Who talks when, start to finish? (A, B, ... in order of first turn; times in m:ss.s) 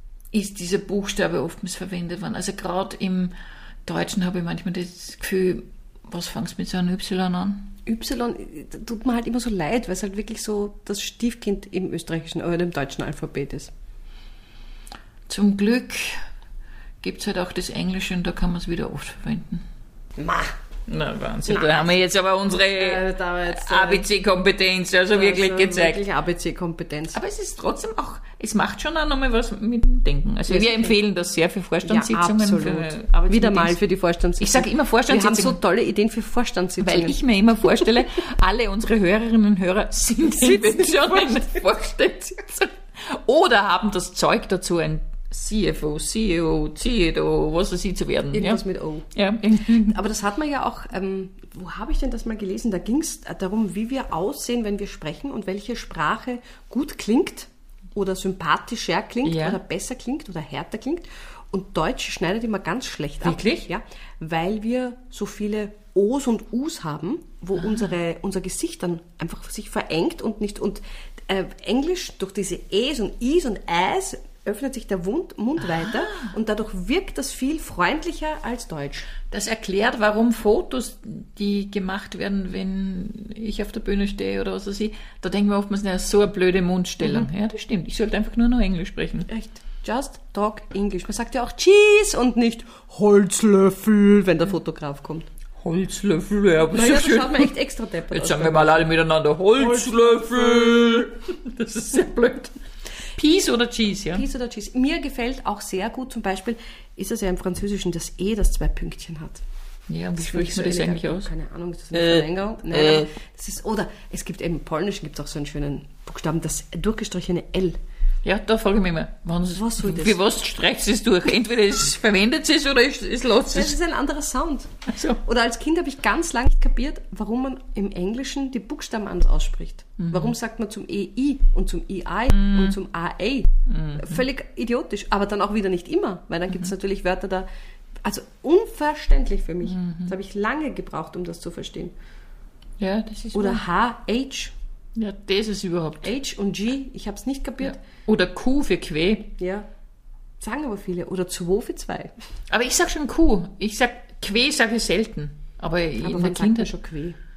0:00.3-0:03.3 A
0:03.8-0:07.8 A
0:07.8-0:13.7 B
0:15.3-0:16.1 A
0:17.0-0:19.6 A
0:20.2-0:20.6 B
0:20.9-0:26.0 A
0:21.5-0:22.0 B
0:22.7-0:24.0 B
0:25.1-0:27.2 B
0:27.1-0:33.8 A
0:30.5-0:31.0 B
0:31.8-0:37.2 B
0:34.4-0:35.6 A
0:36.8-0:48.6 A
0:40.3-0:41.5 B
0:48.3-0:49.1 B
0:49.1-0:50.0 A
0:49.8-1:19.1 B
0:59.2-0:59.6 A
1:03.2-1:03.7 A
1:07.6-1:07.9 A
1:15.6-1:16.3 A
1:19.3-1:29.3 A
1:29.3-1:35.3 B
1:35.6-1:37.5 A
1:36.7-1:38.9 B
1:38.1-1:42.6 A
1:39.6-1:40.8 B
1:43.1-1:44.2 A
1:44.1-1:49.4 B
1:49.9-1:51.3 A
1:50.2-1:57.8 B
1:51.9-1:53.1 A
1:58.2-2:03.8 A
1:59.5-2:00.2 B
2:03.5-2:17.5 B
2:04.9-2:05.2 A
2:10.0-2:10.3 A
2:12.3-2:12.8 A
2:13.7-2:14.2 A
2:18.0-2:21.9 B
2:19.6-2:20.1 A
2:22.8-2:23.6 A
2:23.3-2:24.5 B
2:24.9-2:26.1 A
2:26.0-2:27.8 B
2:27.6-2:29.4 A
2:29.4-2:29.6 B
2:30.4-2:32.1 B
2:32.5-2:36.7 A
2:36.0-2:37.2 B